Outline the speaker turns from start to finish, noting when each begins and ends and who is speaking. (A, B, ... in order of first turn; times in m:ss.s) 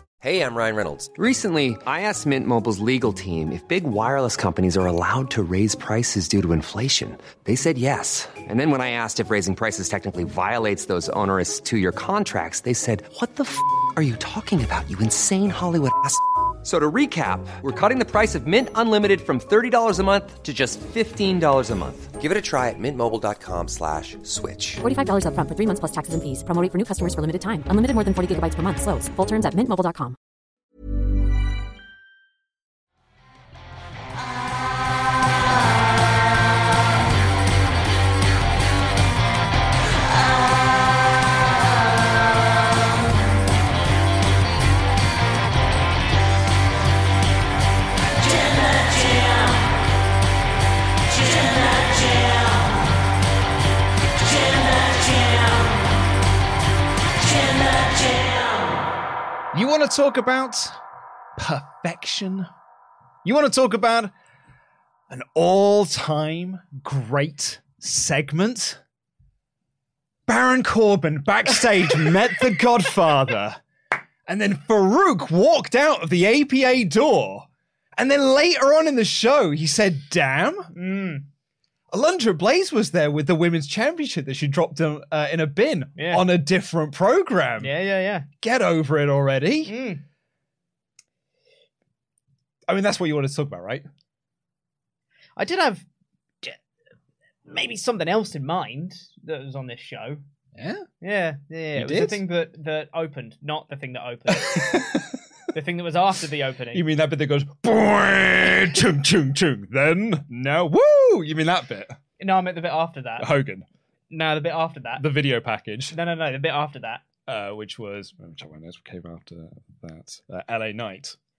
0:00.2-0:01.1 A
0:01.1-0:22.1 B
0:22.0-0:24.8 A
0:24.8-0:30.2 C
0:59.5-1:00.8 D
1:01.4-1:02.5 D
1:03.2-1:04.1 D
1:05.1-1:08.8 D
1:10.3-1:13.6 D
1:14.3-1:20.7 D
1:20.7-1:21.2 E
1:21.9-1:27.7 D
1:26.0-1:26.2 E
1:27.6-1:28.3 E
1:28.4-1:29.8 D
1:29.6-1:30.0 E
1:32.7-1:33.8 D
1:35.4-1:35.8 E
1:37.5-1:40.2 E
1:40.5-1:40.9 D
1:41.0-1:44.8 E
1:41.7-1:42.2 D
1:44.3-1:45.2 D
1:45.5-1:46.8 E
1:46.7-1:52.0 D
1:52.2-1:53.3 E
1:53.2-1:53.7 D
1:54.1-1:55.0 E
1:54.9-1:56.0 D
1:55.9-1:57.0 E
1:57.3-2:01.2 D